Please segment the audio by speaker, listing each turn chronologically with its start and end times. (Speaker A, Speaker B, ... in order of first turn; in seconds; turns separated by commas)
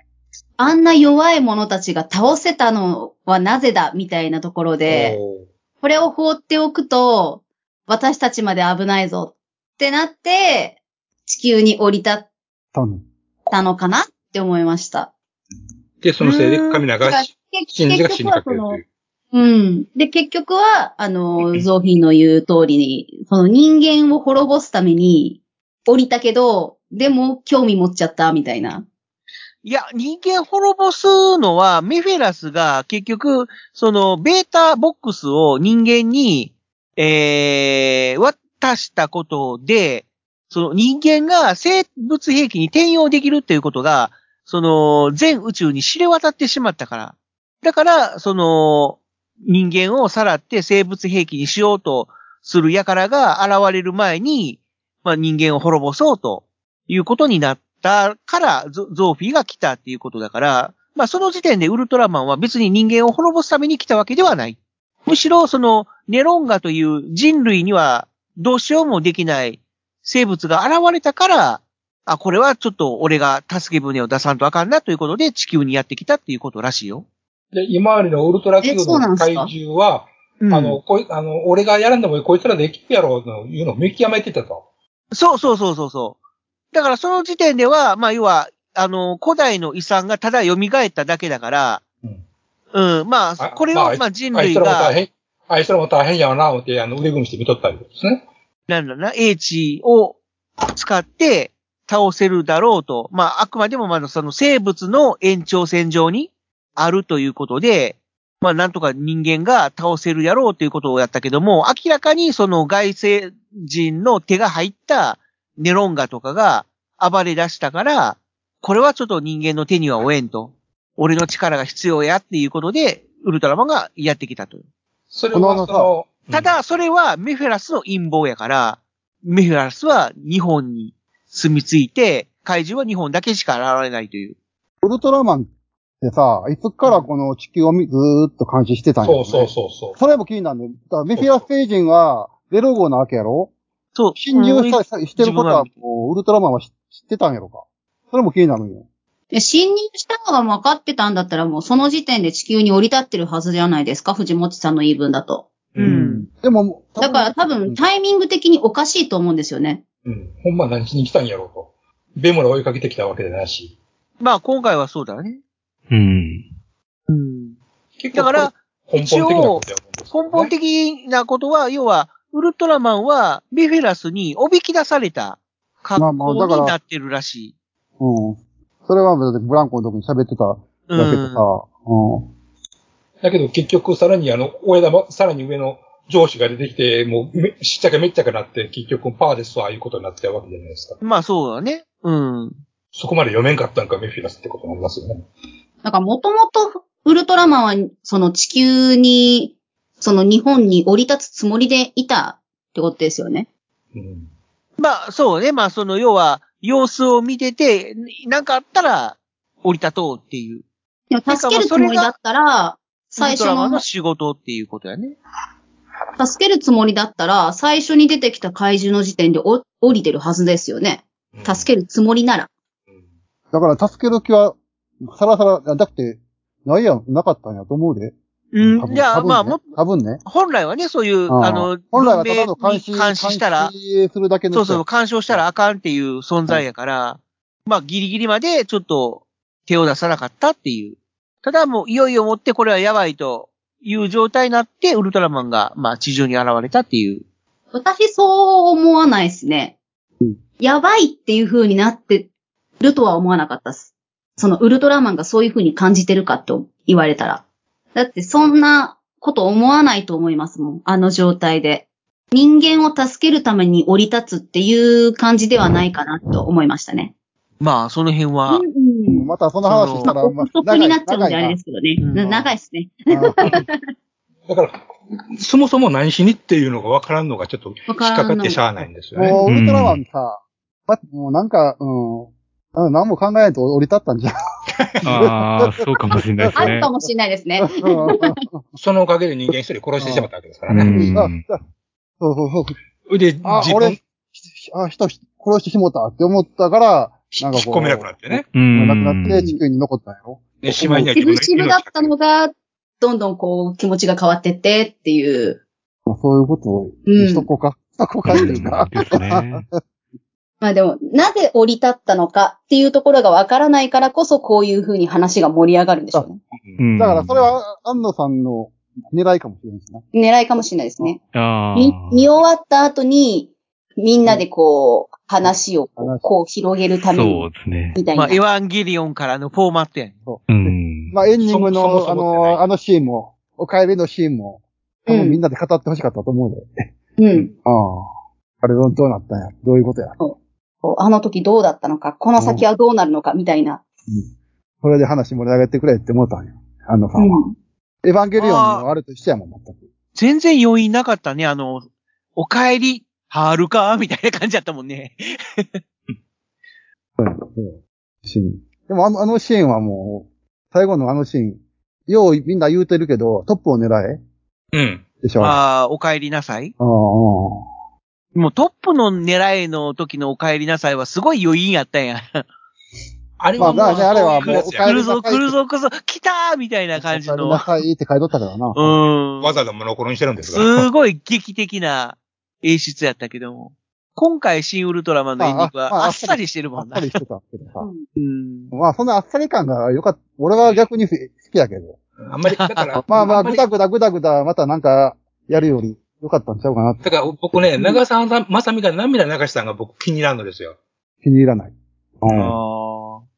Speaker A: 0.6-5.2, Speaker B: 4.9-5.5, Speaker A: 5.8-12.2, Speaker C: 12.7-13.0, Speaker A: 13.5-15.1, Speaker B: 16.0-18.8, Speaker A: 16.2-18.8, Speaker A: 19.3-28.8, Speaker D: 29.6-77.0, Speaker B: 77.5-84.6, Speaker A: 78.6-79.5, Speaker D: 80.4-80.8, Speaker D: 85.1-86.2, Speaker D: 86.7-91.8, Speaker D: 92.7-94.9, Speaker B: 93.4-98.2, Speaker D: 98.7-100.2, Speaker D: 100.7-124.6, Speaker B: 125.1-126.5, Speaker C: 125.3-125.9, Speaker D: 126.3-134.3, Speaker C: 134.8-135.5, Speaker C: 136.0-143.5, Speaker B: 139.0-140.0, Speaker B: 141.2-141.4, Speaker D: 143.9-145.7, Speaker C: 144.2-148.8, Speaker A: 149.3-155.5, Speaker D: 155.8-156.3, Speaker C: 155.8-157.8, Speaker A: 157.0-159.8, Speaker B: 160.0-163.7, Speaker D: 164.2-165.4, Speaker E: 165.9-166.4, Speaker D: 167.1-167.6, Speaker B: 168.0-170.5, Speaker D: 168.1-177.5, Speaker C: 176.0-176.8, Speaker C: 178.0-182.3, Speaker D: 180.9-181.4, Speaker B: 183.2-191.0, Speaker D: 191.0-192.5, Speaker B: 192.9-195.2, Speaker A: 195.8-203.5, Speaker B: 203.9-204.3, Speaker D: 204.8-210.6, Speaker A: 211.1-213.8, Speaker D: 211.3-212.1, Speaker D: 213.1-215.2, Speaker A: 216.2-222.5, Speaker B: 221.3-221.7, Speaker C: 223.5-230.2, Speaker D: 228.5-229.6, Speaker D: 230.2-233.7, Speaker C: 231.3-235.4, Speaker D: 234.5-247.2, Speaker A: 247.7-249.8, Speaker A: 250.6-252.3, Speaker A: 252.8-257.4, Speaker A: 257.9-267.1, Speaker D: 267.6-268.6, Speaker A: 268.5-269.3, Speaker C: 269.1-271.6, Speaker D: 269.6-270.1, Speaker A: 270.0-273.7, Speaker D: 272.0-272.3, Speaker C: 272.1-272.5, Speaker C: 273.1-273.6, Speaker B: 274.5-274.8, Speaker B: 275.4-279.4, Speaker A: 277.9-278.6, Speaker C: 279.1-284.3, Speaker E: 279.4-280.0, Speaker E: 285.0-286.9, Speaker C: 285.1-286.9, Speaker A: 286.6-288.3, Speaker C: 287.6-288.6, Speaker B: 288.8-291.1, Speaker C: 289.5-290.3, Speaker E: 290.7-291.4, Speaker C: 290.9-291.6, Speaker C: 292.2-292.8, Speaker B: 293.1-294.0, Speaker C: 293.4-301.1, Speaker B: 297.3-298.4, Speaker E: 298.5-299.5, Speaker B: 300.6-302.1, Speaker A: 301.1-305.6, Speaker C: 306.1-309.6, Speaker A: 307.1-307.5, Speaker E: 308.3-309.6, Speaker A: 310.6-316.4, Speaker E: 316.8-317.5, Speaker C: 317.0-320.0, Speaker A: 320.1-321.2, Speaker E: 321.3-322.3, Speaker A: 321.8-328.4, Speaker C: 325.4-326.3, Speaker E: 327.1-328.0, Speaker D: 328.1-330.1, Speaker C: 330.2-338.1, Speaker E: 330.5-331.1, Speaker B: 331.4-332.6, Speaker A: 335.1-335.4, Speaker A: 337.2-337.5, Speaker C: 338.6-340.2, Speaker A: 340.2-343.8, Speaker C: 342.4-342.6, Speaker C: 344.8-347.4, Speaker A: 347.2-347.5, Speaker C: 348.0-349.8, Speaker D: 348.4-348.9, Speaker D: 350.1-355.8, Speaker C: 357.2-364.2, Speaker B: 364.7-365.0, Speaker C: 365.2-365.6, Speaker D: 365.4-366.7, Speaker C: 366.8-367.6, Speaker D: 368.3-372.4, Speaker B: 373.4-374.9, Speaker C: 373.6-375.5, Speaker D: 373.6-377.7, Speaker C: 377.0-379.0, Speaker D: 378.7-379.6, Speaker B: 379.4-380.9, Speaker D: 380.4-387.1, Speaker C: 385.4-387.9, Speaker A: 387.8-388.0, Speaker D: 388.1-388.7, Speaker C: 388.7-392.0, Speaker B: 392.2-393.7, Speaker D: 392.5-393.0, Speaker C: 393.1-397.7, Speaker B: 397.0-400.8, Speaker C: 401.2-402.5, Speaker D: 402.3-403.2